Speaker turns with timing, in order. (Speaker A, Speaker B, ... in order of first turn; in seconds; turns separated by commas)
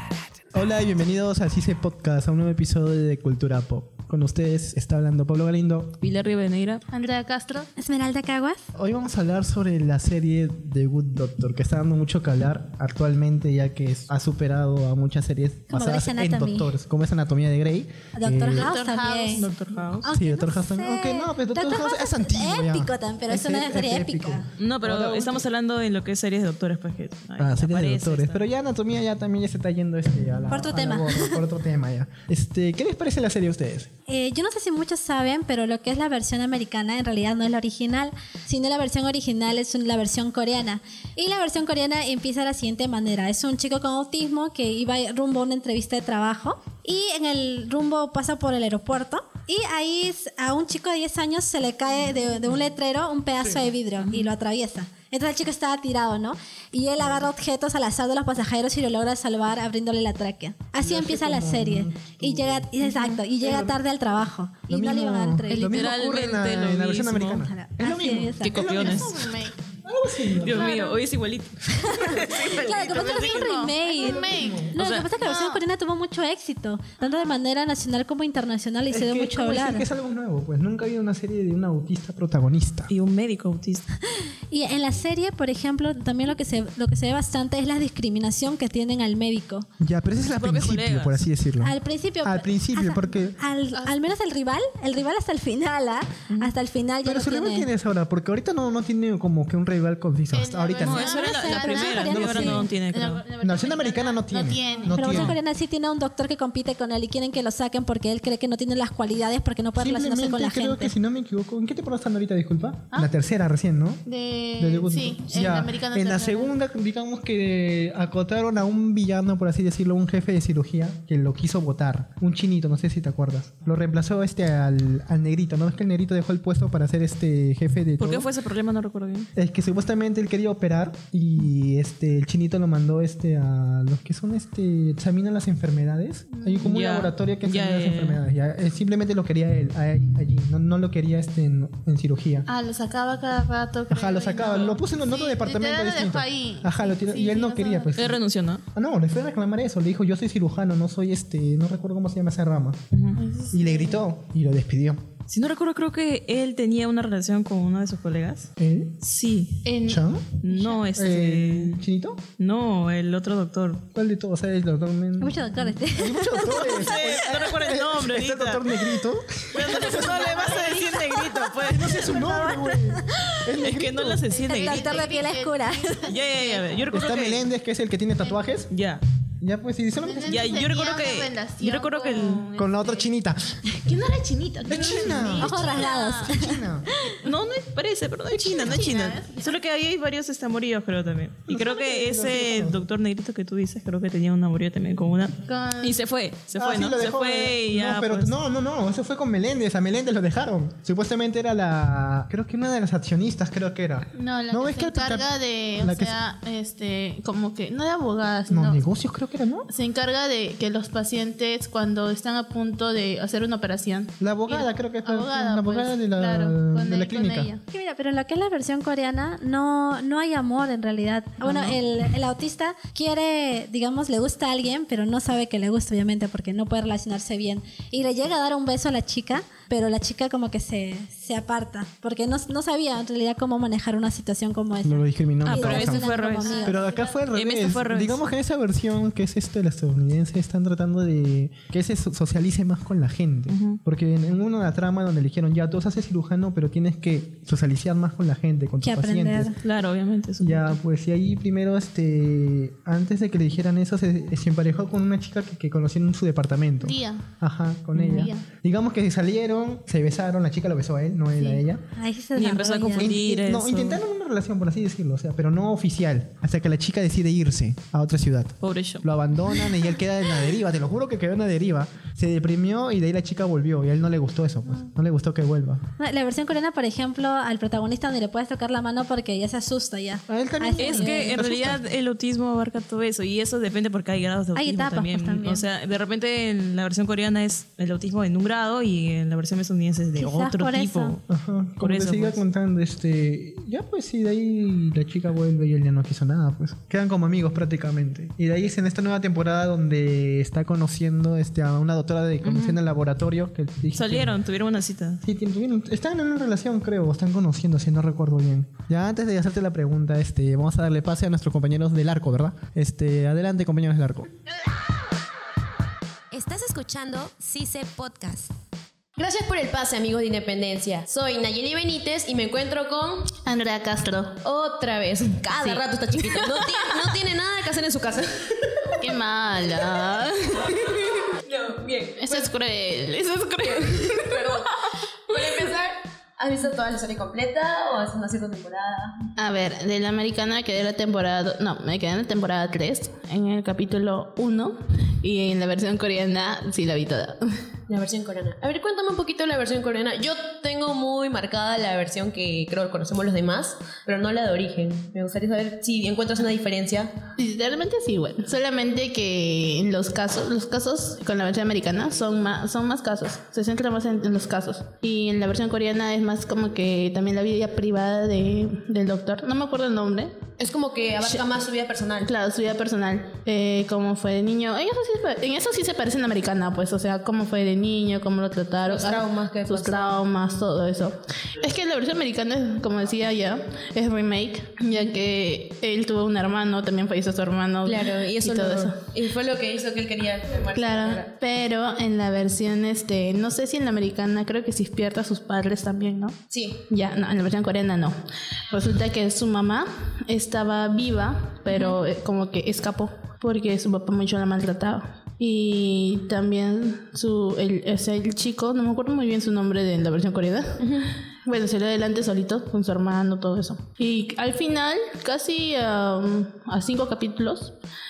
Speaker A: 0.5-6.0, Speaker B: 6.0-6.8, Speaker C: 6.9-7.7, Speaker D: 7.8-8.6, Speaker A: 8.8-18.8, Speaker D: 15.7-16.7, Speaker D: 18.2-19.5, Speaker C: 18.6-19.4, Speaker B: 19.3-20.1, Speaker D: 20.0-24.5, Speaker A: 20.1-25.5, Speaker B: 24.6-28.4, Speaker A: 27.4-33.9, Speaker D: 30.5-31.4, Speaker D: 34.1-65.8, Speaker A: 53.4-53.7, Speaker B: 54.0-54.3, Speaker A: 60.8-62.7, Speaker B: 62.8-63.2, Speaker A: 63.4-63.8, Speaker A: 64.7-70.7, Speaker B: 65.5-67.5, Speaker D: 67.5-68.6, Speaker B: 68.4-69.2, Speaker C: 68.7-69.6, Speaker B: 70.4-73.6, Speaker C: 70.5-71.0, Speaker D: 72.0-79.9, Speaker C: 72.5-74.6, Speaker A: 73.9-75.6, Speaker B: 74.8-75.1, Speaker A: 78.9-82.9, Speaker B: 82.9-83.8, Speaker D: 84.1-89.7, Speaker A: 89.8-93.4, Speaker B: 90.3-91.2, Speaker D: 91.6-97.7, Speaker B: 96.3-96.5, Speaker A: 97.0-101.1, Speaker C: 100.3-105.2, Speaker B: 100.8-103.2, Speaker D: 101.0-102.7, Speaker A: 102.1-102.6, Speaker A: 103.4-105.4, Speaker D: 104.9-110.9, Speaker B: 105.1-105.3, Speaker A: 109.8-114.0, Speaker C: 114.1-116.5, Speaker A: 114.6-128.3, Speaker B: 128.0-129.3, Speaker A: 129.4-142.5, Speaker C: 136.3-136.7, Speaker B: 136.7-138.2, Speaker C: 142.5-147.9, Speaker A: 143.9-148.2, Speaker B: 147.9-148.6, Speaker A: 148.8-152.8, Speaker B: 152.9-153.2, Speaker C: 153.2-154.0, Speaker A: 153.5-155.0, Speaker B: 155.3-158.5, Speaker A: 158.6-159.0, Speaker B: 159.0-159.6, Speaker C: 159.7-160.8, Speaker A: 159.8-160.4, Speaker B: 160.4-161.7, Speaker A: 160.9-162.2, Speaker B: 162.4-163.8, Speaker A: 163.9-174.3, Speaker D: 165.2-167.1, Speaker B: 166.4-169.0, Speaker B: 169.5-172.0, Speaker C: 169.9-170.9, Speaker D: 172.0-173.4, Speaker B: 173.6-175.0, Speaker C: 174.3-176.8, Speaker D: 174.5-176.2, Speaker B: 176.1-177.4, Speaker A: 176.9-178.7, Speaker B: 178.7-179.0, Speaker A: 179.4-180.7, Speaker C: 180.0-183.1, Speaker B: 180.3-182.5, Speaker A: 182.6-183.6, Speaker C: 183.8-186.3, Speaker A: 184.7-186.9, Speaker D: 185.4-187.2, Speaker B: 187.2-198.3, Speaker A: 188.3-189.2, Speaker C: 188.7-189.5, Speaker A: 191.5-192.8, Speaker C: 195.5-196.0, Speaker A: 196.6-206.2, Speaker C: 204.2-208.8, Speaker A: 208.5-209.7, Speaker C: 209.7-217.6, Speaker A: 214.2-217.5, Speaker D: 217.7-236.9, Speaker C: 221.4-221.8, Speaker A: 234.8-249.6, Speaker B: 235.4-236.7, Speaker C: 236.4-237.3, Speaker B: 237.3-238.2, Speaker B: 243.5-243.8, Speaker D: 248.8-249.6, Speaker B: 249.6-250.8, Speaker A: 250.4-261.8, Speaker C: 256.8-257.3, Speaker B: 257.9-258.3, Speaker C: 258.1-258.4, Speaker D: 261.4-263.2, Speaker B: 262.4-264.0, Speaker A: 263.0-275.8, Speaker B: 268.6-269.1, Speaker D: 276.0-281.4, Speaker A: 280.3-281.8, Speaker B: 280.8-291.2, Speaker D: 284.6-285.7, Speaker D: 290.2-291.2, Speaker A: 291.3-304.4, Speaker B: 291.8-292.4, Speaker B: 302.4-302.8, Speaker B: 303.9-305.2, Speaker A: 305.2-314.3, Speaker E: 316.3-318.5, Speaker F: 319.2-323.3, Speaker C: 323.4-324.3, Speaker F: 324.4-329.2, Speaker C: 325.6-326.7, Speaker C: 329.0-331.1, Speaker F: 331.4-332.5, Speaker C: 332.2-334.5, Speaker F: 333.7-334.7, Speaker F: 335.3-339.1, Speaker C: 339.4-347.4, Speaker F: 347.9-357.1, Speaker C: 357.4-370.5, Speaker F: 370.6-372.3, Speaker C: 372.3-389.0, Speaker F: 378.8-380.2, Speaker F: 387.9-391.3, Speaker C: 390.8-396.4, Speaker F: 396.5-396.8, Speaker C: 396.9-398.2, Speaker C: 398.7-417.8, Speaker F: 401.7-402.0, Speaker F: 410.8-411.1